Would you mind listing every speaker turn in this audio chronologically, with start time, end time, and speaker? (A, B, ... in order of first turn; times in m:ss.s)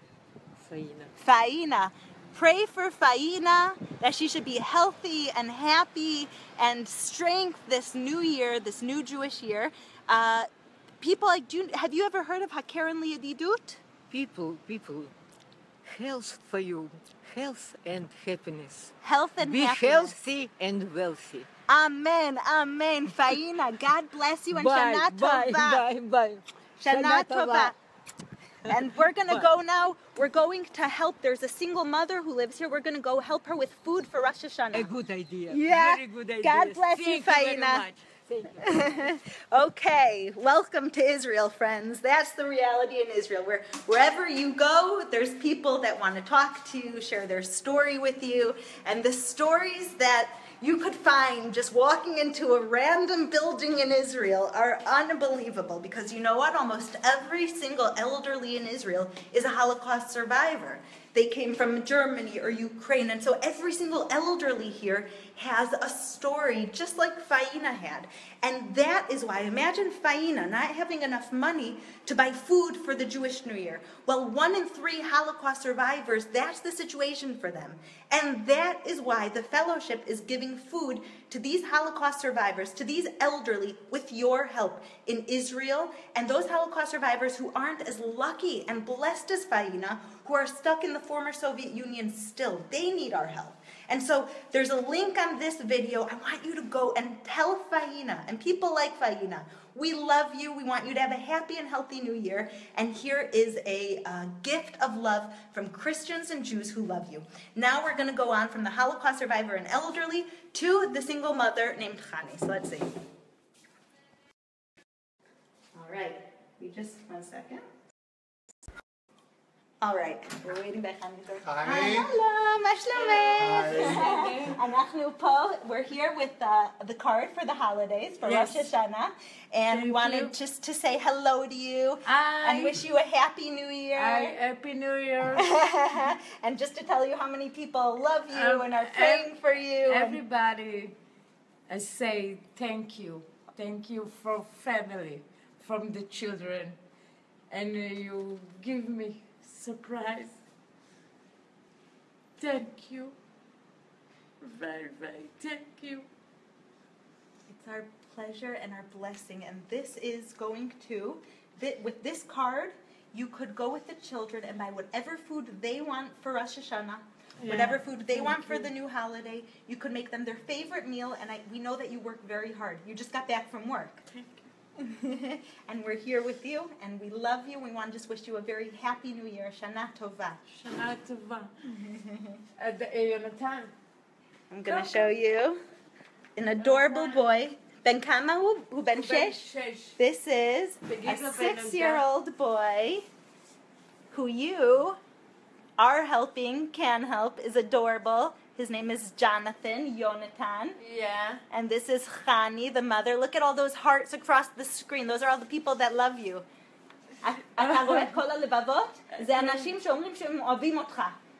0:00.6-0:01.1 A
0:01.2-0:10.5 B
0:11.0-0:13.8 B
0:14.1-0:15.1 A
0:15.8-0:21.5 A
0:19.0-0:20.2 B
0:21.7-0:25.8 B
0:24.5-0:27.8 A
0:26.8-0:27.8 B
0:28.6-0:29.5 A
0:28.7-0:34.9 B
0:34.7-0:39.2 A
0:35.5-0:37.8 B
0:38.6-1:52.9 B
1:55.7-1:57.6 B
1:59.8-2:14.4 B
2:02.9-2:04.6 C
2:08.2-2:08.7 C
2:09.7-2:10.3 C
2:12.0-2:12.8 C
2:13.9-2:15.5 C
2:15.3-2:20.2 B
2:18.3-2:19.3 C
2:19.9-2:21.0 C
2:21.7-2:26.8 C
2:27.5-2:30.4 C
2:32.4-2:33.2 C
2:34.4-2:36.1 C
2:37.5-2:54.0 B
2:47.4-2:48.7 C
2:54.1-2:54.4 C
2:54.8-3:00.5 B
3:00.6-3:01.6 C
3:01.7-3:02.4 B
3:02.6-3:03.7 C
3:04.5-3:05.6 B
3:04.7-3:05.1 C
3:06.4-3:13.1 B
3:06.6-3:07.3 C
3:09.0-3:10.0 C
3:10.9-3:12.1 C
3:14.1-3:15.0 B
3:15.8-3:20.8 B
3:20.8-3:21.4 C
3:21.5-3:26.4 B
3:27.2-3:31.2 B
3:27.6-3:28.1 C
3:29.3-3:29.7 C